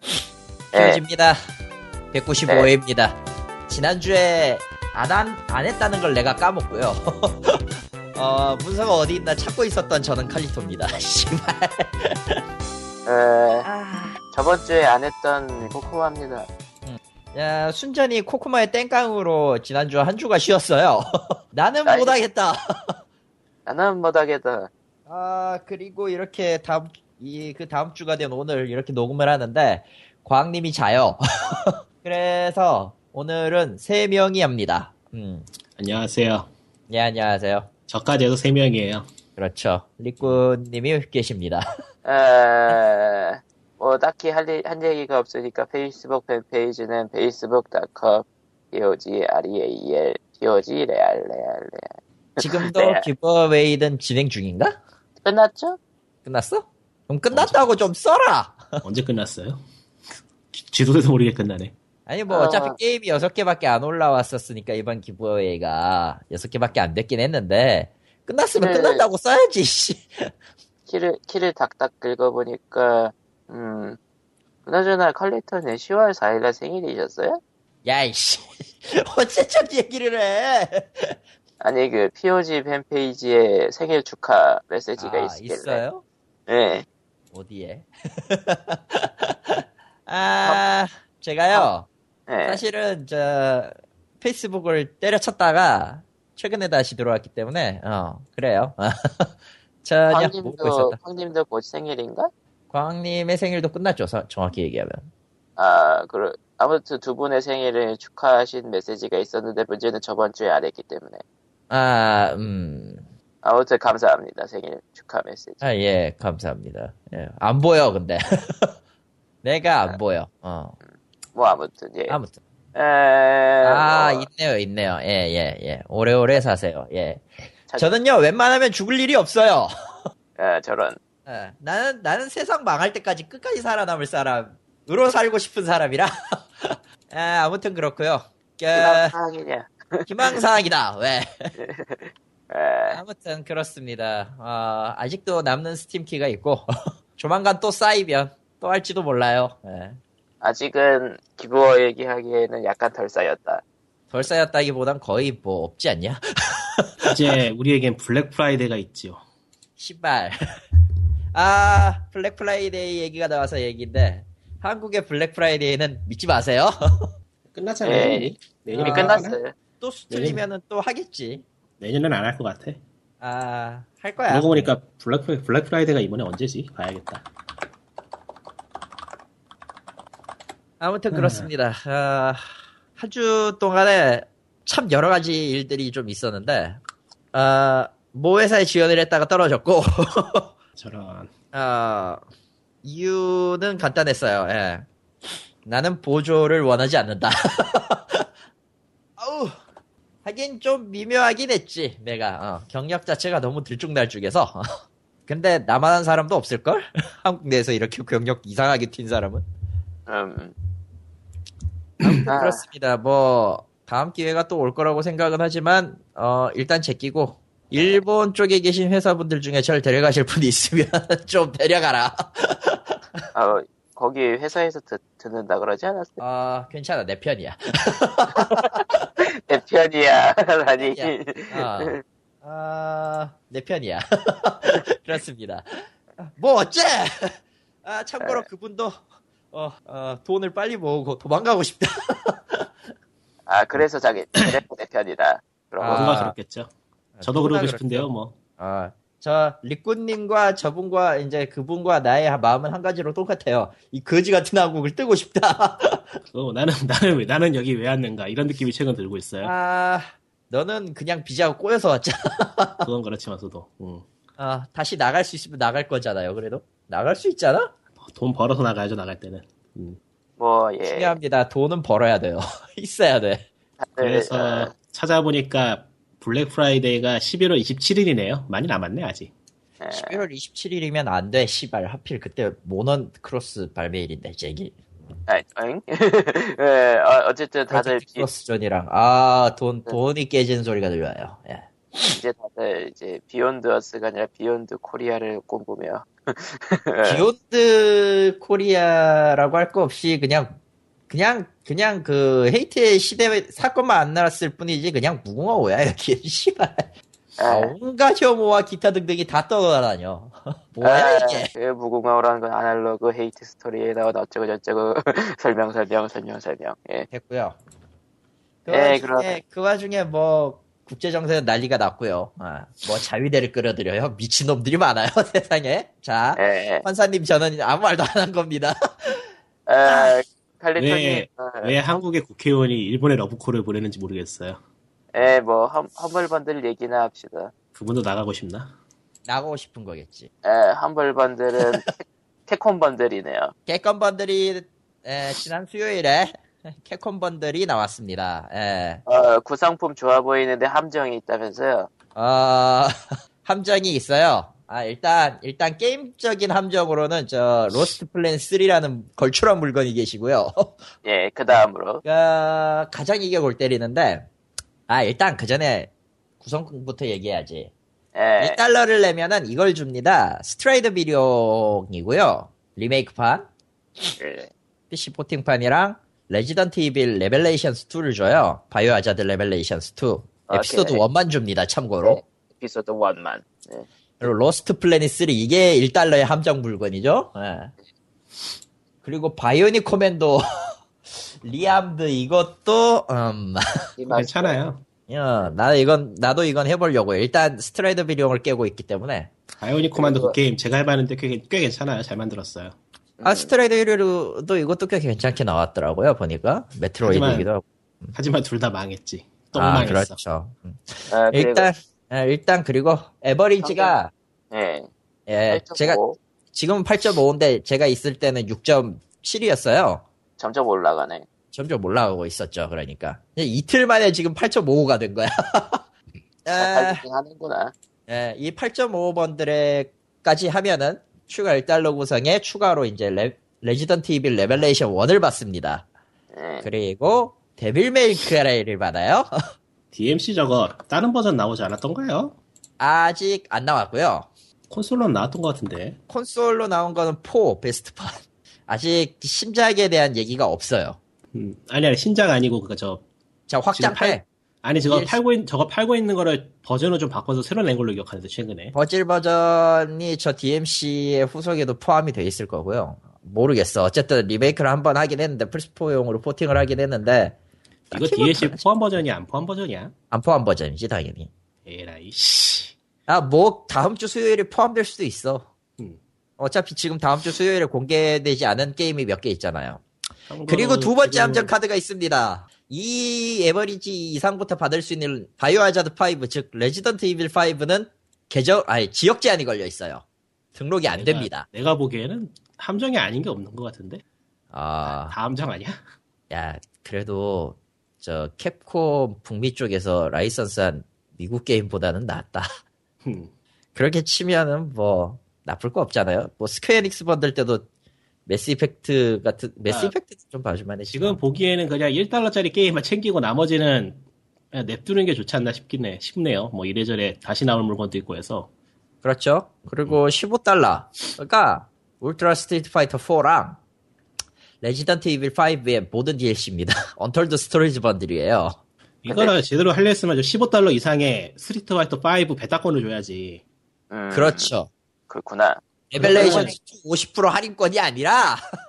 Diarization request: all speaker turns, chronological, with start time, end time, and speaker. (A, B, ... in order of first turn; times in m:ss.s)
0:00.7-0:01.0 A
0:00.7-0:01.4 B
0:02.1-0:12.4 B
0:13.1-0:13.7 A
0:13.6-0:14.2 B
0:14.3-0:16.5 A
0:16.9-0:23.0 B
0:21.9-0:22.2 A
0:23.7-0:24.7 A
0:25.1-0:35.5 B
0:35.8-0:36.5 C
0:36.9-0:37.7 B
0:37.9-0:39.1 C
0:39.4-0:41.7 B
0:42.0-0:51.9 A
0:52.4-0:54.8 B
0:52.4-0:53.1 A
0:55.2-0:55.8 A
0:56.2-0:58.8 B
0:57.3-0:57.6 C
0:58.8-0:59.6 C
1:00.5-1:01.7 C
1:02.1-1:10.3 B
1:02.3-1:02.8 A
1:08.6-1:09.1 A
1:10.9-1:14.0 A
1:14.7-1:17.4 A
1:17.8-1:21.2 B
1:21.6-1:25.8 A
1:25.0-1:26.0 B
1:26.5-1:26.8 A
1:27.3-1:31.9 B
1:32.3-1:32.6 A
1:32.4-1:41.0 B
1:40.1-1:42.3 A
1:42.7-1:45.1 B
1:45.6-1:51.2 A
1:51.7-1:53.1 B
1:53.4-1:55.6 A
1:55.6-1:58.7 B
1:59.4-2:00.8 B
2:01.3-2:02.2 A
2:02.1-2:02.4 B
2:02.8-2:04.3 A
2:03.6-2:07.3 B
2:07.8-2:10.1 B
2:10.4-2:11.0 A
2:11.3-2:19.1 B
2:18.7-2:20.4 A
2:20.1-2:21.6 B
2:21.6-2:23.0 A
2:22.9-2:30.0 B
2:30.4-2:33.6 A
2:34.1-2:37.2 B
2:37.0-2:39.2 C
2:39.8-2:40.6 B
2:41.3-2:47.1 B
2:47.5-2:49.4 C
2:47.8-2:49.5 A
2:48.8-2:49.2 B
2:49.8-2:51.4 B
2:50.1-2:50.4 C
2:51.8-2:52.8 C
2:53.2-2:54.7 B
2:54.3-2:57.3 C
3:00.8-3:02.4 B
3:01.1-3:01.5 C
3:03.0-3:06.8 B
3:07.3-3:10.5 B
3:10.8-3:11.3 C
3:11.5-3:12.2 B
3:12.8-3:14.9 B
3:15.7-3:18.3 B
3:19.2-3:19.6 B
3:20.2-3:24.6 B
3:25.3-3:29.4 B
3:30.1-3:30.5 A
3:32.0-3:43.0 B
3:32.3-3:32.6 A
3:43.3-3:46.2 A
3:46.2-3:49.1 B
3:48.4-3:52.0 A
3:50.8-4:02.7 B
4:03.5-4:06.1 A
4:05.8-4:06.4 B
4:05.9-4:06.7 C
4:07.2-4:16.2 B
4:07.2-4:08.4 C
4:16.3-4:19.5 C
4:19.4-4:22.9 B
4:22.8-4:24.1 C
4:24.4-4:27.7 B
4:28.0-4:30.0 C
4:30.4-4:31.2 A
4:30.9-4:33.5 B
4:33.8-4:34.7 A
4:34.0-4:39.3 C
4:39.8-4:40.2 A
4:39.9-4:44.7 B
4:45.3-4:48.3 A
4:47.7-4:52.2 B
4:52.1-4:57.3 A
4:57.0-5:00.6 B
5:01.1-5:06.9 B
5:07.4-5:07.8 A
5:07.5-5:11.5 B
5:10.8-5:17.1 A
5:17.1-5:17.6 B
5:18.6-5:29.3 B
5:18.7-5:19.4 A
5:26.4-5:26.8 A
5:29.7-5:31.8 A
5:29.9-5:30.2 B
5:30.8-5:34.6 C
5:35.1-5:37.5 A
5:37.8-5:38.7 C
5:39.3-5:40.3 B
5:40.4-5:41.9 A
5:42.5-5:43.5 A
5:43.7-5:49.0 B
5:49.1-5:51.9 A
5:52.2-6:00.9 B
6:01.0-6:02.0 A
6:01.5-6:04.3 B
6:04.9-6:05.9 B
6:06.4-6:07.7 B
6:08.2-6:08.6 A
6:08.4-6:13.5 B
6:14.2-6:14.5 A
6:14.9-6:22.2 B
6:20.5-6:21.0 A
6:22.0-6:24.3 A
6:24.2-6:27.7 B
6:29.0-6:30.7 B
6:31.4-6:33.7 B
6:34.0-6:34.6 A
6:34.1-6:34.8 C
6:35.1-6:39.3 B
6:39.6-6:42.8 C
6:40.0-6:40.4 A
6:43.2-6:43.5 A
6:43.2-6:48.2 B
6:47.0-6:47.5 C
6:48.2-6:50.2 C
6:49.6-6:54.1 B
6:51.1-6:51.7 A
6:53.6-6:54.0 A
6:54.5-6:54.9 A
6:55.3-6:56.0 B
6:55.5-6:56.2 A
6:56.5-7:00.0 B
7:00.4-7:01.3 A
7:01.5-7:05.8 B
7:06.4-7:07.0 B
7:06.5-7:07.7 A
7:08.1-7:15.9 B
7:16.3-7:16.7 A
7:16.6-7:19.3 B
7:19.9-7:22.4 C
7:22.8-7:24.3 B
7:24.7-7:26.0 C
7:26.1-7:31.0 B
7:31.3-7:33.0 C
7:33.5-7:34.2 B
7:33.7-7:38.8 C
7:34.8-7:35.2 B
7:38.7-7:47.4 B
7:47.9-7:48.6 B
7:47.9-7:49.9 C
7:50.1-7:51.3 B
7:51.6-7:52.8 C
7:53.1-7:55.5 B
7:56.4-7:59.8 B
8:00.3-8:01.5 C
8:00.5-8:10.0 B
8:10.6-8:11.5 B
8:10.9-8:14.0 C
8:14.5-8:15.2 B
8:14.9-8:15.8 C
8:16.3-8:22.5 B
8:23.0-8:23.3 C
8:23.8-8:27.7 B
8:28.3-8:31.2 B
8:29.7-8:29.9 C
8:30.9-8:34.0 C
8:34.5-8:38.5 C
8:39.0-8:43.6 B
8:44.6-8:48.6 B
8:49.0-8:53.4 C
8:53.9-8:54.5 A
8:54.1-8:54.7 B
8:55.1-8:56.6 A
8:55.9-8:58.4 B
8:56.0-8:56.6 C